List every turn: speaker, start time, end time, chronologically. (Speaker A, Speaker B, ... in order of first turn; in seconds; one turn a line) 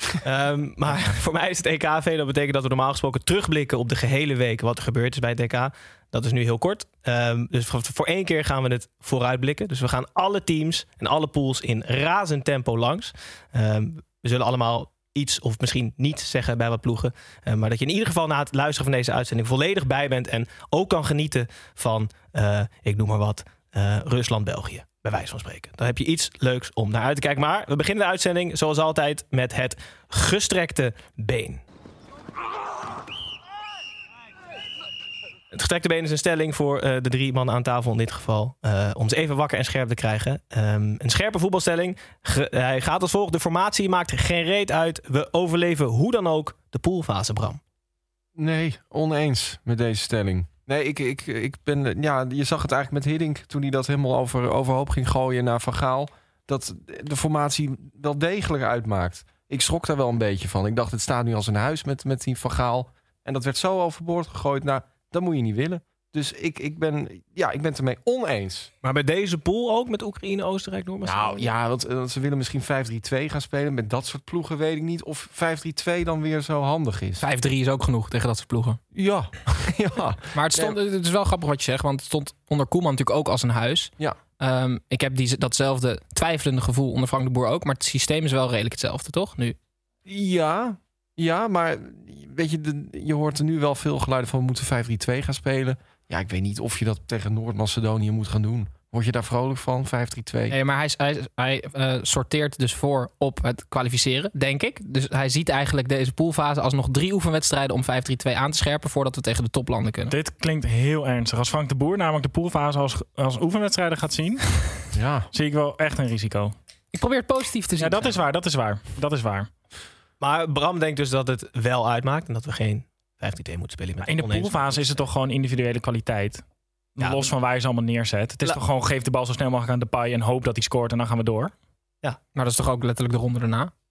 Speaker A: 0.2-31.6
Speaker A: 35.5-47.6
Speaker B: 48.4-68.7
Speaker A: 68.8-71.5
Speaker B: 71.0-77.2
Speaker C: 77.2-78.8
Speaker B: 78.9-80.8
Speaker C: 80.3-89.5
Speaker B: 90.0-100.5
Speaker C: 100.5-110.1
Speaker D: 110.1-116.5
Speaker B: 114.9-115.3
Speaker C: 116.9-118.2
Speaker D: 117.8-119.5
Speaker A: 120.2-125.0
Speaker D: 124.0-126.4
Speaker D: 127.0-131.5
Speaker A: 127.0-127.3
Speaker C: 132.3-133.7